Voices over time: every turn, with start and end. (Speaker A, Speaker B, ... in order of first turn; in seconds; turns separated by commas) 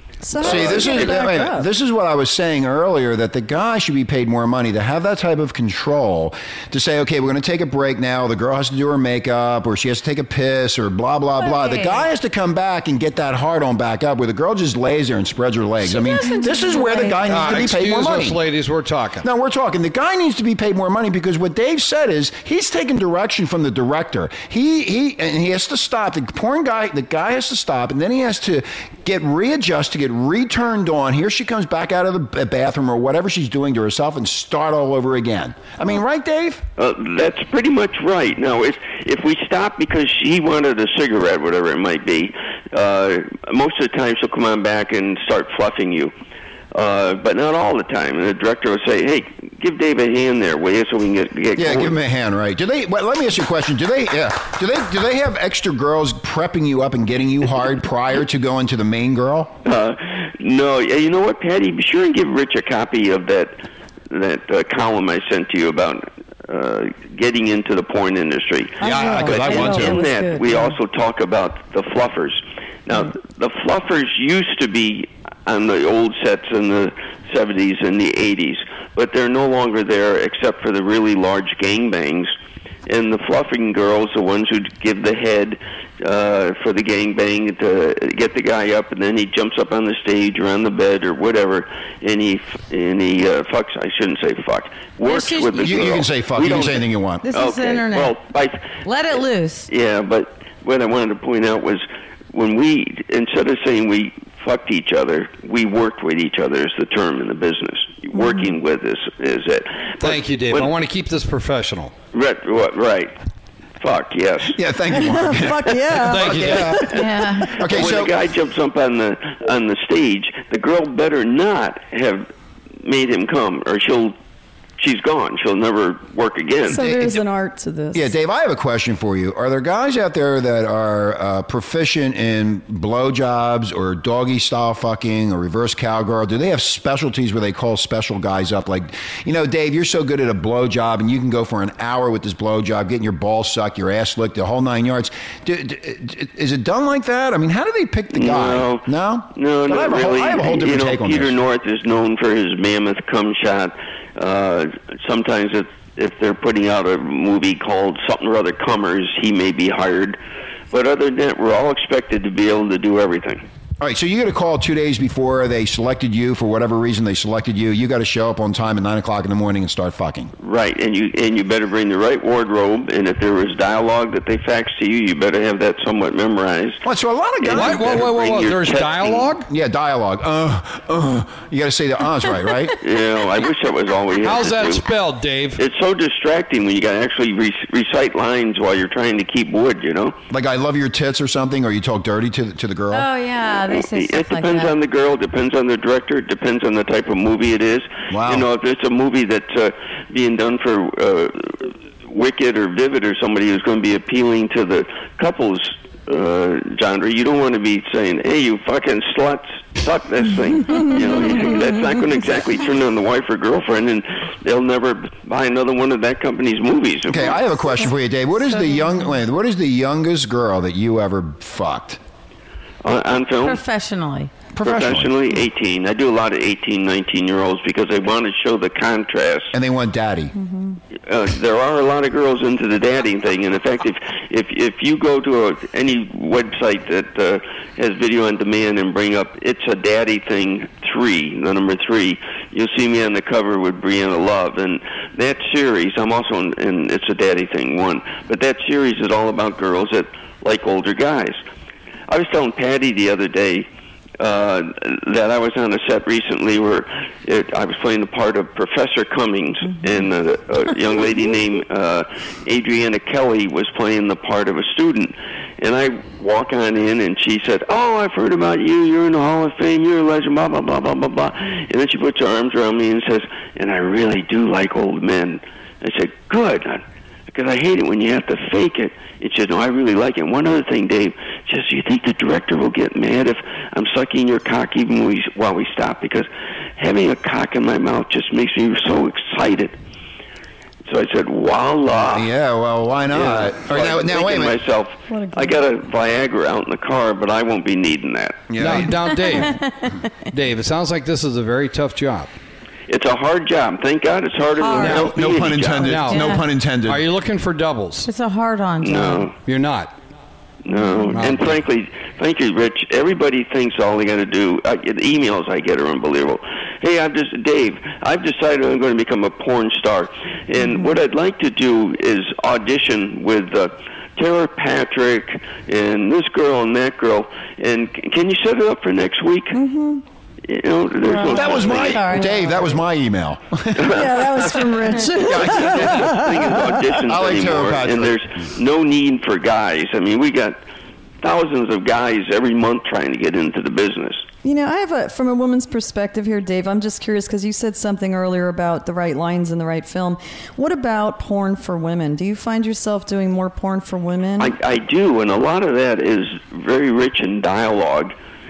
Speaker A: 0.2-1.7, Speaker B: 0.4-1.2, Speaker C: 0.4-18.4, Speaker D: 11.4-12.1, Speaker D: 15.9-17.2, Speaker E: 17.2-19.3, Speaker C: 19.2-36.6, Speaker B: 36.8-46.1, Speaker B: 46.7-51.9, Speaker C: 51.5-59.5, Speaker B: 59.6-82.3, Speaker A: 68.8-70.7, Speaker C: 68.8-70.0, Speaker B: 82.8-98.7, Speaker D: 95.0-95.9, Speaker C: 95.6-97.2, Speaker D: 97.2-98.2, Speaker D: 98.8-99.7, Speaker B: 99.7-110.7, Speaker A: 108.2-108.5, Speaker E: 110.0-111.9, Speaker B: 112.1-113.2, Speaker B: 113.8-114.6, Speaker C: 114.5-118.1, Speaker A: 114.9-117.5, Speaker E: 116.0-116.8, Speaker D: 116.9-117.5, Speaker B: 117.6-122.3, Speaker B: 122.8-124.1, Speaker B: 124.8-126.8, Speaker A: 126.7-128.1, Speaker C: 126.8-127.2, Speaker C: 127.9-151.3, Speaker B: 148.1-160.2, Speaker B: 160.7-163.4, Speaker C: 163.8-170.3, Speaker B: 170.4-176.8, Speaker C: 176.8-178.1, Speaker B: 177.4-179.3, Speaker E: 177.5-179.5, Speaker C: 179.5-182.8, Speaker B: 182.8-184.8, Speaker E: 184.2-185.6, Speaker B: 185.6-190.2, Speaker C: 190.3-193.1, Speaker D: 192.9-194.7, Speaker B: 193.7-217.4, Speaker C: 198.1-198.5, Speaker C: 217.1-222.0, Speaker B: 222.8-223.6, Speaker D: 223.4-224.3, Speaker C: 224.5-225.1, Speaker B: 224.6-229.5, Speaker C: 229.5-230.3, Speaker A: 230.4-230.8, Speaker B: 231.1-251.4, Speaker B: 252.1-253.7, Speaker B: 254.2-289.8, Speaker B: 290.9-292.3, Speaker C: 291.9-294.6, Speaker B: 293.1-298.5, Speaker A: 295.1-295.6, Speaker C: 298.5-299.0, Speaker E: 298.6-302.3, Speaker D: 299.2-300.0, Speaker B: 302.9-306.0, Speaker D: 304.6-305.1, Speaker C: 304.8-307.0, Speaker E: 305.8-308.1, Speaker D: 306.1-306.4, Speaker D: 308.0-309.3, Speaker B: 308.8-309.3, Speaker E: 309.4-309.9, Speaker B: 310.6-329.6, Speaker E: 310.9-311.6, Speaker A: 320.6-320.9, Speaker A: 329.5-330.0, Speaker B: 330.4-332.1, Speaker D: 331.0-332.7, Speaker C: 331.3-334.5, Speaker A: 332.1-332.5, Speaker B: 333.7-334.6, Speaker A: 333.9-336.7, Speaker C: 335.2-338.2, Speaker B: 335.2-340.6, Speaker B: 341.2-344.2, Speaker A: 344.4-354.5, Speaker B: 354.4-358.1